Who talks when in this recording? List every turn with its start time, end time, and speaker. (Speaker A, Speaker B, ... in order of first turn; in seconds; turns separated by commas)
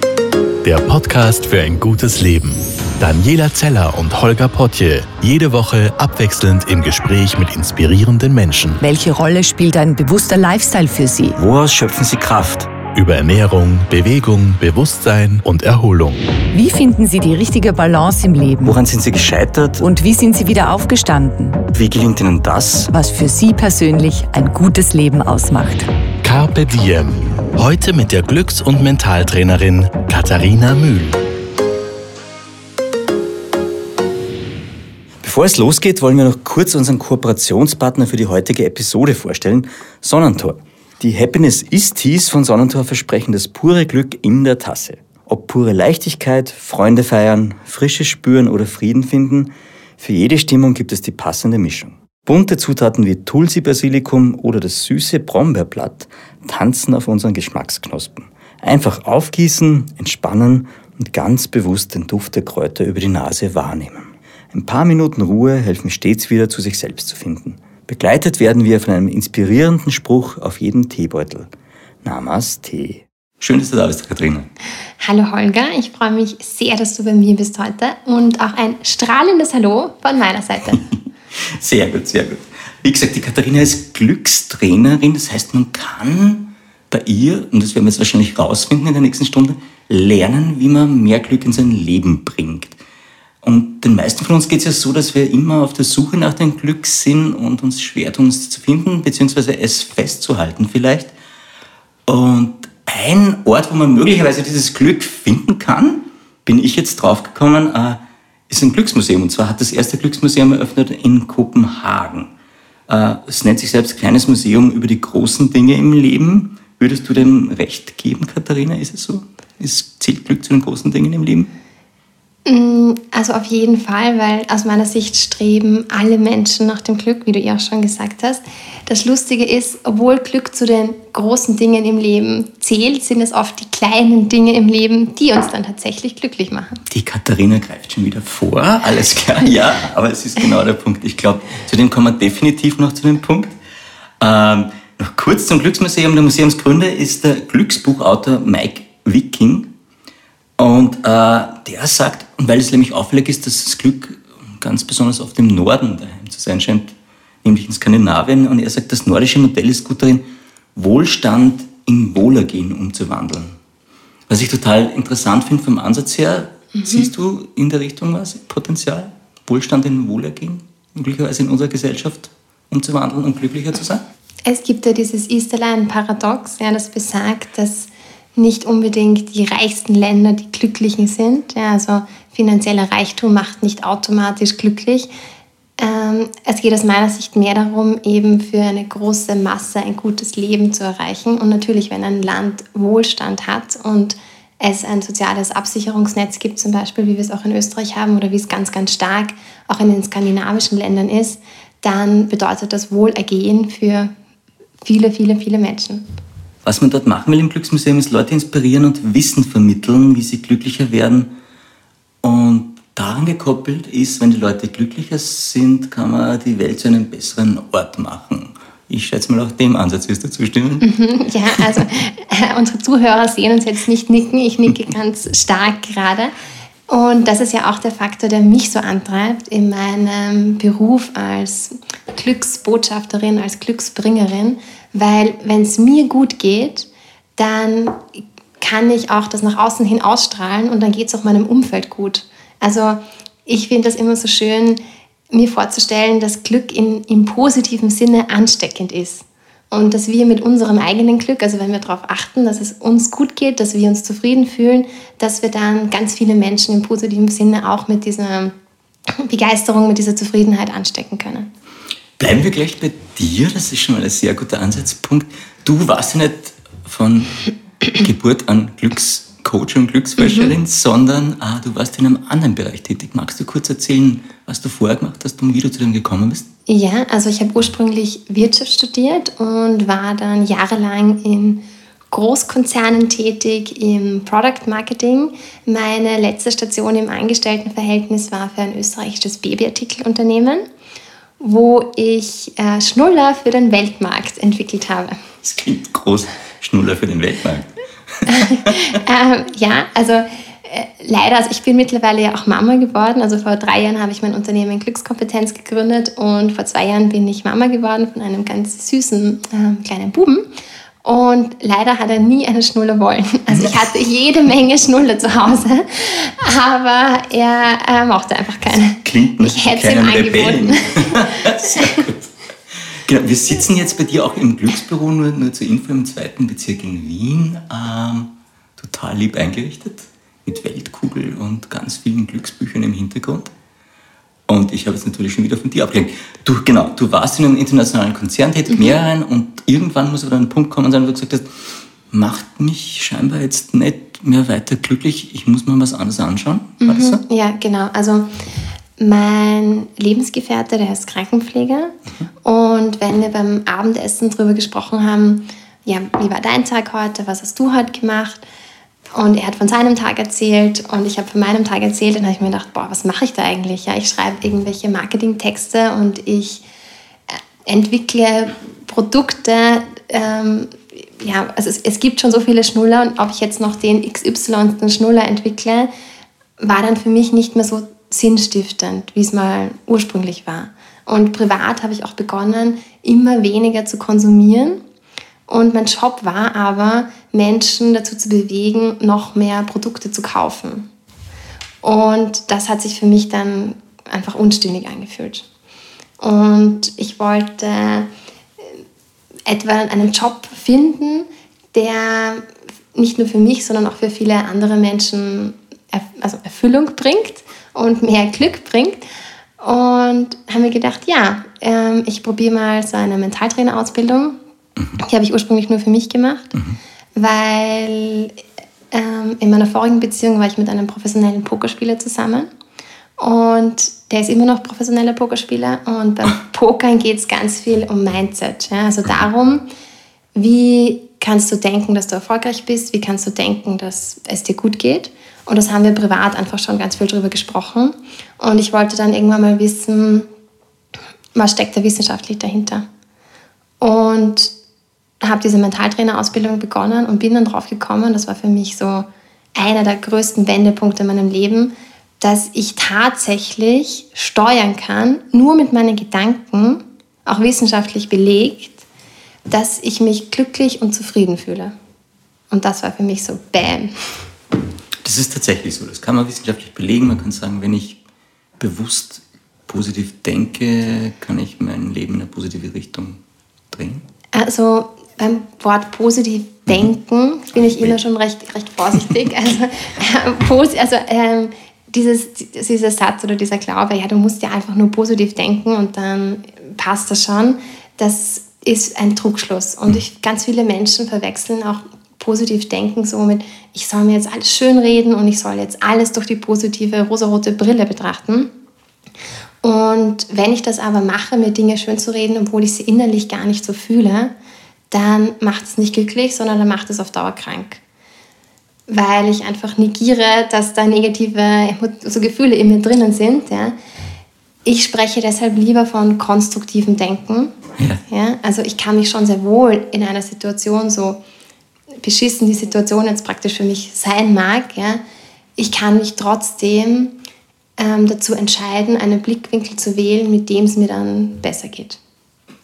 Speaker A: 0.6-8.8, Speaker B: 8.8-11.4, Speaker C: 11.3-12.7, Speaker A: 12.8-16.2, Speaker B: 16.5-18.8, Speaker C: 18.6-19.9, Speaker B: 19.8-21.7, Speaker C: 21.7-22.9, Speaker B: 22.9-25.9, Speaker A: 26.2-31.2, Speaker C: 35.2-71.5, Speaker C: 72.0-74.5, Speaker D: 75.0-80.9, Speaker C: 80.8-92.8, Speaker C: 93.4-101.1, Speaker C: 102.1-112.3, Speaker C: 112.9-121.5, Speaker D: 122.5-136.8, Speaker C: 136.9-143.6, Speaker C: 144.2-149.7, Speaker C: 150.6-163.6, Speaker C: 164.3-174.0, Speaker D: 166.7-167.1, Speaker D: 174.4-185.1, Speaker D: 185.8-204.1, Speaker D: 204.8-206.1, Speaker C: 206.7-211.3, Speaker C: 212.2-220.8, Speaker D: 220.8-226.3, Speaker D: 226.9-244.8, Speaker D: 245.3-258.5, Speaker D: 259.1-261.5, Speaker C: 262.2-276.5, Speaker D: 276.7-290.6, Speaker D: 291.4-295.2, Speaker C: 295.4-299.0, Speaker D: 298.3-310.5, Speaker D: 311.0-322.0, Speaker C: 313.5-313.8, Speaker C: 319.0-333.5, Speaker C: 334.5-347.2, Speaker D: 346.8-348.3, Speaker D: 349.0-358.4, Speaker D: 359.1-366.6, Speaker D: 367.3-375.9, Speaker D: 376.6-384.8, Speaker D: 385.5-390.9, Speaker D: 391.8-395.4, Speaker D: 396.2-398.1, Speaker D: 399.5-409.0, Speaker D: 409.6-414.4, Speaker D: 415.0-416.6, Speaker D: 417.2-418.4, Speaker D: 418.9-422.5, Speaker D: 423.2-429.7, Speaker D: 430.4-440.3, Speaker D: 441.4-442.9, Speaker D: 443.8-444.5, Speaker D: 445.2-458.8, Speaker D: 459.5-461.7, Speaker D: 462.5-464.2, Speaker C: 465.0-468.0, Speaker C: 468.6-473.2, Speaker C: 473.7-474.1, Speaker D: 474.3-498.5, Speaker C: 477.6-477.9, Speaker D: 499.6-504.3, Speaker D: 504.9-507.8, Speaker D: 508.9-513.8, Speaker D: 514.6-517.5, Speaker D: 518.1-521.2, Speaker D: 522.0-525.0, Speaker D: 525.6-527.2, Speaker D: 527.8-532.0